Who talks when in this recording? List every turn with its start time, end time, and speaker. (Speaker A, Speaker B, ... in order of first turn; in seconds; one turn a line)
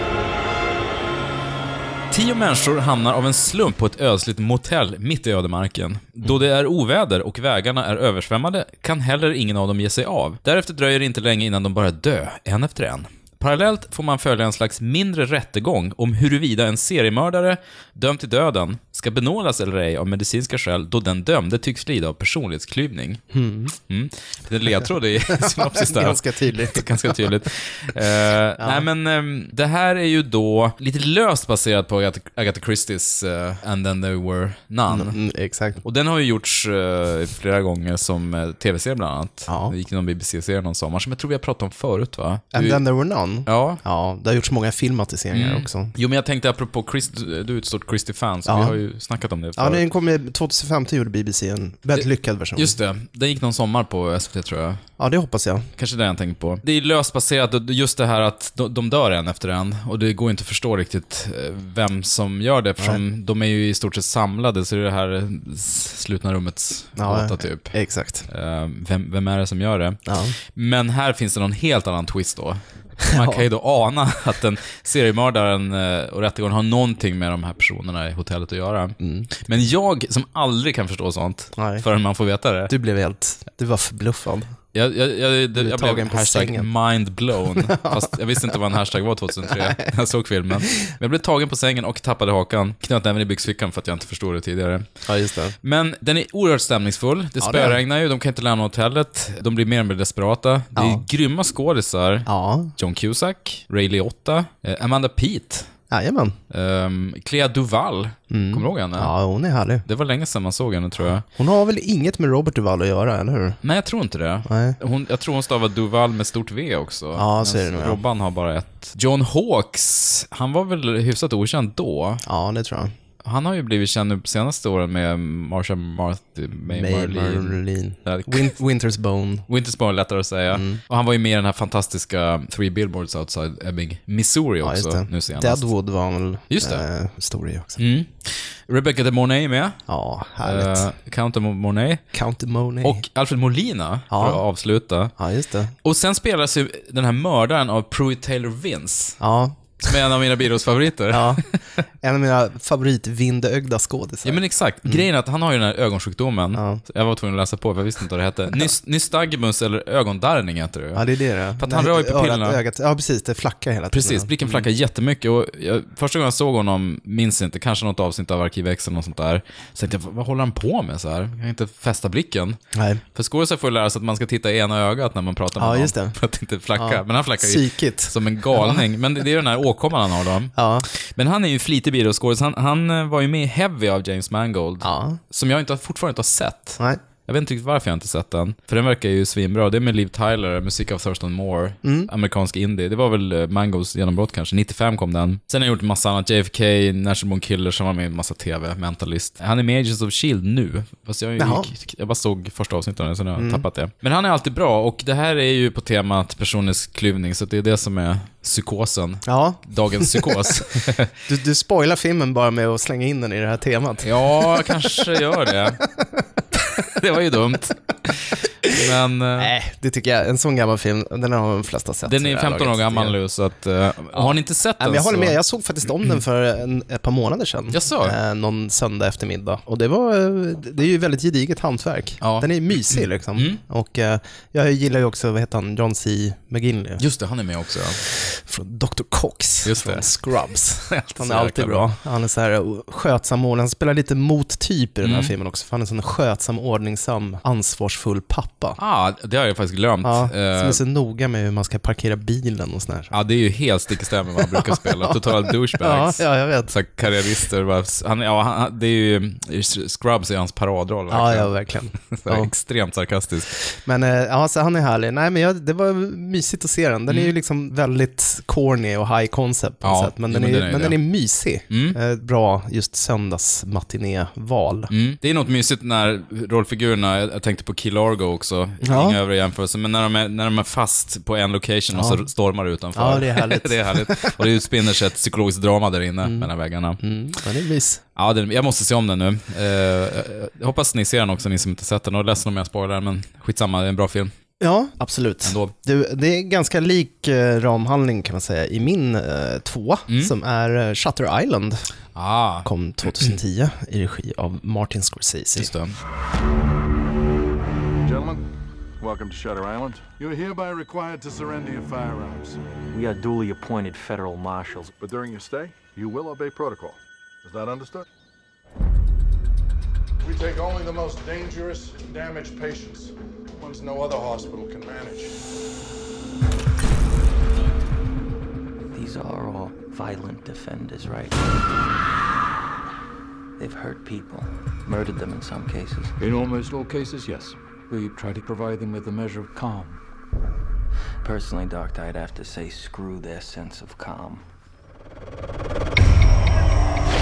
Speaker A: 2.1-23.2
Speaker B: 23.3-23.8
Speaker A: 23.9-35.2
Speaker B: 25.3-27.4
Speaker B: 28.6-28.9
Speaker B: 34.9-35.8
Speaker A: 35.8-42.8
Speaker B: 39.5-39.7
Speaker B: 42.5-45.9
Speaker A: 43.5-43.8
Speaker A: 45.3-49.9
Speaker B: 48.5-48.8
Speaker B: 49.6-52.8
Speaker A: 51.9-54.8
Speaker B: 55.0-55.7
Speaker A: 55.8-67.8
Speaker B: 67.0-68.3
Speaker A: 68.3-82.7
Speaker B: 70.1-70.3
Speaker B: 73.0-73.4
Speaker B: 79.0-79.3
Speaker B: 81.6-81.8
Speaker B: 82.7-84.5
Speaker A: 84.7-94.9
Speaker B: 85.6-86.7
Speaker B: 87.6-88.6
Speaker B: 89.5-89.8
Speaker B: 95.0-95.5
Speaker A: 95.6-105.7
Speaker B: 97.4-97.8
Speaker B: 100.8-101.0
Speaker B: 102.3-102.7
Speaker B: 105.9-106.4
Speaker A: 106.5-109.1
Speaker B: 108.3-109.8
Speaker A: 109.9-111.2
Speaker B: 111.2-113.6
Speaker A: 113.6-122.2
Speaker B: 114.5-114.8
Speaker B: 117.2-118.0
Speaker B: 122.2-122.9
Speaker A: 123.2-128.6
Speaker B: 126.7-129.5
Speaker A: 129.5-135.7
Speaker B: 130.5-130.8
Speaker B: 134.6-137.8
Speaker A: 136.5-136.8
Speaker A: 137.8-139.8
Speaker B: 139.9-140.9
Speaker A: 140.4-142.0
Speaker B: 142.1-143.0
Speaker A: 142.8-145.1
Speaker B: 144.1-144.4
Speaker B: 145.2-145.7
Speaker A: 145.8-149.2
Speaker B: 149.2-149.9
Speaker A: 149.8-151.6
Speaker B: 151.1-151.4
Speaker B: 152.0-155.1
Speaker A: 154.2-161.0
Speaker B: 156.6-156.8
Speaker B: 160.9-164.7
Speaker A: 161.6-162.6
Speaker A: 163.9-172.6
Speaker B: 172.7-173.0
Speaker A: 173.1-211.1
Speaker B: 175.6-176.2
Speaker B: 176.8-178.8
Speaker B: 180.6-180.9
Speaker B: 184.8-185.2
Speaker B: 191.8-192.1
Speaker B: 201.4-201.7
Speaker B: 203.4-203.6
Speaker B: 209.3-210.5
Speaker B: 211.3-214.7
Speaker A: 214.0-215.8
Speaker A: 216.8-219.5
Speaker B: 219.4-223.2
Speaker A: 222.1-225.4
Speaker B: 224.1-237.0
Speaker A: 227.7-228.2
Speaker A: 232.2-233.6
Speaker A: 237.0-238.0
Speaker B: 238.2-248.8
Speaker A: 239.7-240.1
Speaker A: 240.9-241.9
Speaker A: 245.0-245.3
Speaker A: 248.8-250.8
Speaker B: 250.0-253.1
Speaker A: 253.1-261.5
Speaker B: 254.5-256.7
Speaker B: 261.1-262.5
Speaker A: 262.1-263.5
Speaker B: 263.7-274.9
Speaker A: 269.8-271.0
Speaker A: 271.7-272.0
Speaker A: 274.9-287.0
Speaker B: 278.8-279.2
Speaker B: 281.9-282.2
Speaker B: 282.9-284.4
Speaker B: 286.2-286.5
Speaker B: 287.0-288.0
Speaker A: 288.2-294.3
Speaker B: 294.6-301.8
Speaker A: 295.4-295.7
Speaker A: 302.1-302.7
Speaker B: 302.6-305.7
Speaker A: 305.6-306.0
Speaker C: 308.0-308.4
Speaker C: 309.0-312.6
Speaker D: 312.9-314.9
Speaker C: 314.9-318.1
Speaker C: 320.2-325.4
Speaker D: 328.9-331.5
Speaker D: 333.6-336.2
Speaker E: 336.2-340.0
Speaker D: 341.2-344.4